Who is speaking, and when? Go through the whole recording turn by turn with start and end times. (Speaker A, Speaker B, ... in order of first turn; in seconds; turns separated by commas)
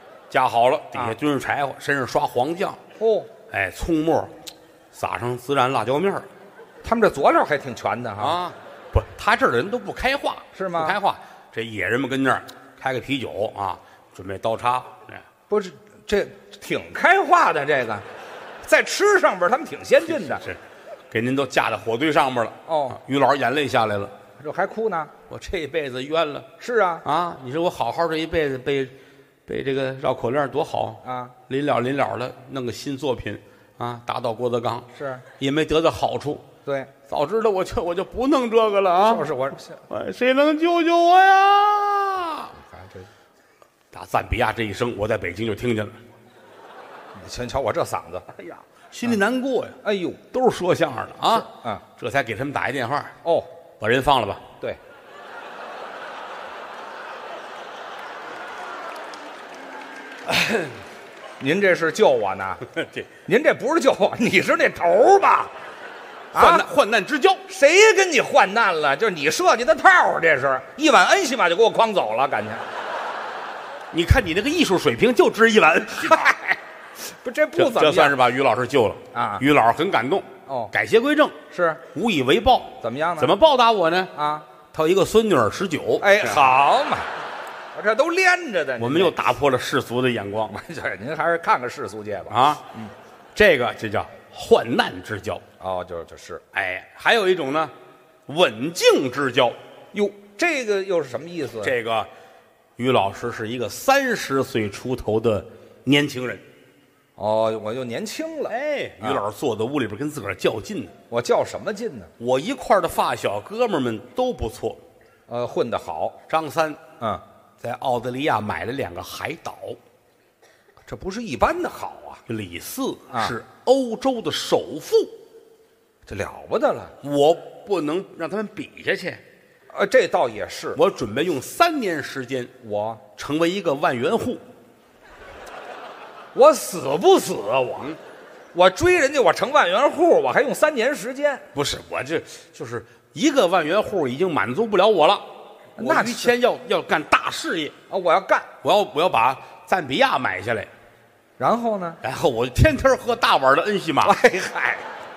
Speaker A: 0.3-2.8, Speaker B: 3.0-3.3, Speaker A: 3.5-4.3, Speaker A: 4.9-6.3, Speaker B: 6.8-8.4, Speaker A: 8.2-15.2, Speaker B: 10.6-11.0, Speaker B: 15.5-18.1, Speaker B: 18.6-20.4, Speaker A: 20.2-24.1, Speaker B: 22.7-23.0, Speaker B: 24.4-25.1, Speaker A: 25.3-26.5, Speaker B: 26.6-27.0, Speaker A: 27.0-28.9, Speaker A: 29.5-36.5, Speaker B: 31.0-31.4, Speaker B: 34.9-35.2, Speaker B: 36.7-36.9, Speaker A: 37.1-39.3, Speaker B: 39.0-39.8, Speaker A: 39.9-42.5, Speaker B: 42.5-43.1, Speaker A: 43.9-46.0, Speaker B: 47.1-48.3, Speaker A: 48.3-49.8, Speaker B: 49.8-50.2, Speaker A: 50.3-53.1, Speaker B: 51.3-51.8, Speaker B: 53.2-53.5, Speaker A: 53.8-54.5, Speaker A: 60.3-60.8, Speaker B: 61.4-62.6, Speaker A: 62.7-63.1, Speaker B: 63.3-65.5, Speaker B: 66.3-66.7, Speaker A: 66.3-67.4, Speaker B: 67.5-72.7, Speaker A: 73.9-76.5, Speaker B: 76.0-76.4, Speaker B: 77.0-78.2, Speaker A: 77.6-81.4, Speaker B: 79.1-79.4, Speaker B: 80.5-80.7, Speaker B: 81.5-81.8, Speaker A: 81.9-84.1, Speaker B: 82.8-83.3, Speaker B: 84.2-84.5, Speaker A: 84.7-86.4, Speaker B: 86.0-87.2, Speaker B: 87.7-89.2, Speaker A: 88.8-90.5, Speaker B: 90.5-92.9, Speaker A: 92.3-92.6, Speaker A: 93.3-95.4, Speaker B: 95.6-96.4, Speaker A: 96.5-97.7, Speaker A: 98.3-99.6, Speaker B: 99.9-101.7, Speaker A: 101.6-102.1, Speaker A: 102.8-106.4, Speaker B: 107.2-109.2, Speaker A: 108.5-110.9, Speaker B: 111.1-112.1, Speaker A: 112.2-114.8, Speaker B: 115.3-116.2, Speaker A: 116.3-116.8, Speaker A: 117.6-119.8, Speaker B: 120.9-122.2, Speaker A: 122.3-125.1, Speaker B: 126.1-127.0, Speaker A: 127.0-129.2, Speaker B: 129.7-130.8, Speaker A: 130.8-132.5, Speaker B: 132.6-133.0, Speaker A: 133.2-134.4, Speaker B: 136.3-137.9, Speaker B: 138.5-141.4, Speaker A: 141.6-147.8, Speaker B: 145.8-146.3, Speaker B: 147.9-148.5, Speaker A: 148.6-150.7, Speaker B: 151.4-152.0, Speaker A: 152.0-154.2, Speaker B: 154.0-154.9